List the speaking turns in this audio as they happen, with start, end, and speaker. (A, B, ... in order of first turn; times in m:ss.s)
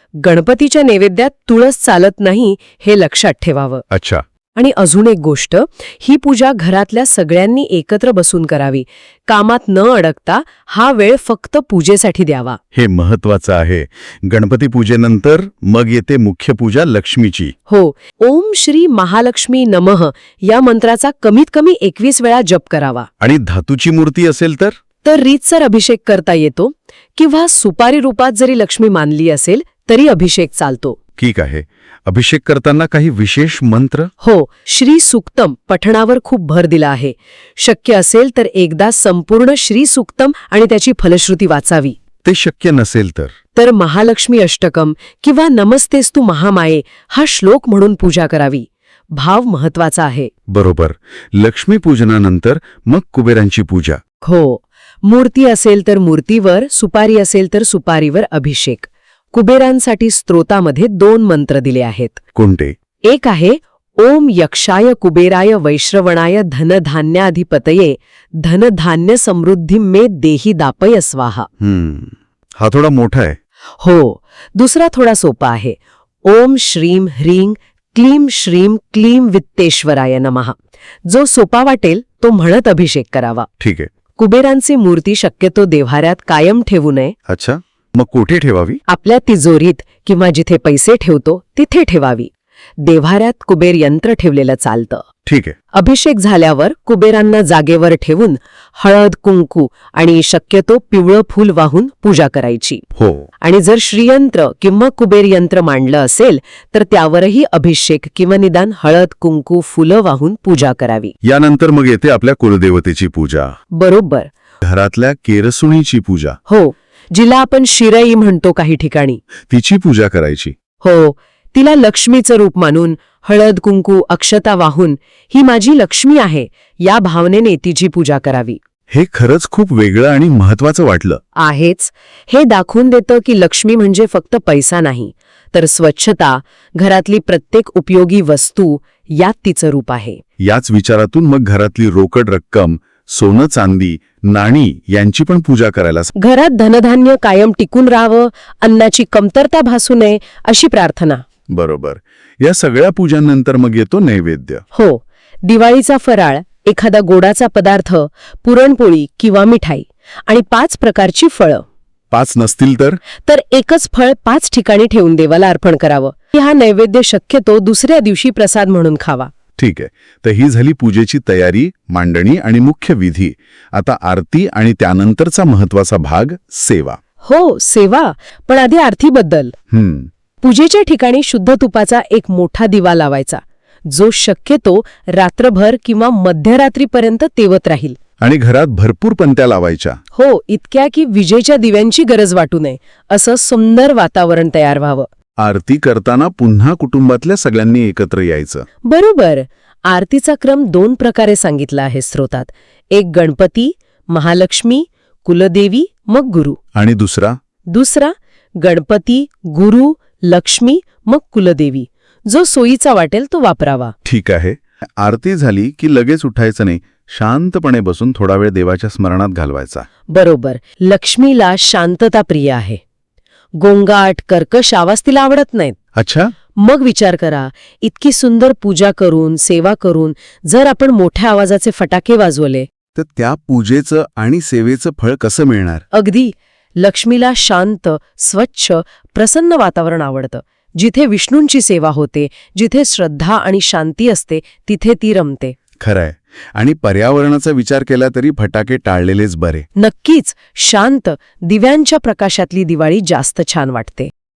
0:00.2-0:03.8 A
0:03.9-0:04.2 B
0:04.6-0:12.6 A
0:12.7-0:17.5 B
0:17.7-0:23.1 A
0:23.2-0:24.8 B
0:25.0-0:31.0 A
0:31.2-0:34.1 B
0:34.2-0:42.0 A
0:42.2-0:43.3 B
0:43.6-0:50.3 A
0:50.5-0:54.0 B
0:54.2-1:02.2 A
1:02.4-1:02.8 B
1:03.0-1:11.5 A
1:11.6-1:13.4 B
1:13.8-1:23.5 A
1:23.6-1:23.9 B
1:24.2-1:27.2 A
1:27.3-1:28.8 B
1:28.9-1:32.3 A
1:32.8-1:35.1 A
1:35.3-1:35.6 B
1:35.7-1:42.8 A
1:43.0-1:43.3 B
1:43.4-1:51.1 A
1:51.2-1:53.5 B
1:53.7-1:54.3 A
1:54.6-1:56.4 B
1:56.5-1:59.2 A
1:59.5-2:00.5 B
2:00.8-2:08.6 A
2:08.9-2:11.2 B
2:11.4-2:20.2 A
2:20.4-2:26.1 B
2:26.2-2:31.2 A
2:31.5-2:34.6 B
2:34.7-2:41.6 A
2:42.1-2:43.0 B
2:43.2-2:49.3 A
2:49.6-2:57.0 B
2:57.2-2:59.6 A
2:59.7-3:00.1 B
3:00.4-3:08.0 A
3:08.2-3:10.0 B
3:10.1-3:15.1 A
3:15.4-3:18.7 B
3:18.8-3:26.6 A
3:26.8-3:27.4 B
3:27.7-3:33.9 A
3:34.0-3:39.9 B
3:40.1-3:42.8 A
3:43.6-3:45.8 A
3:46.0-3:46.3 B
3:46.6-3:52.7 A
3:53.0-3:55.8 B
3:55.9-4:05.6 A
4:05.8-4:09.7 B
4:09.8-4:14.1 A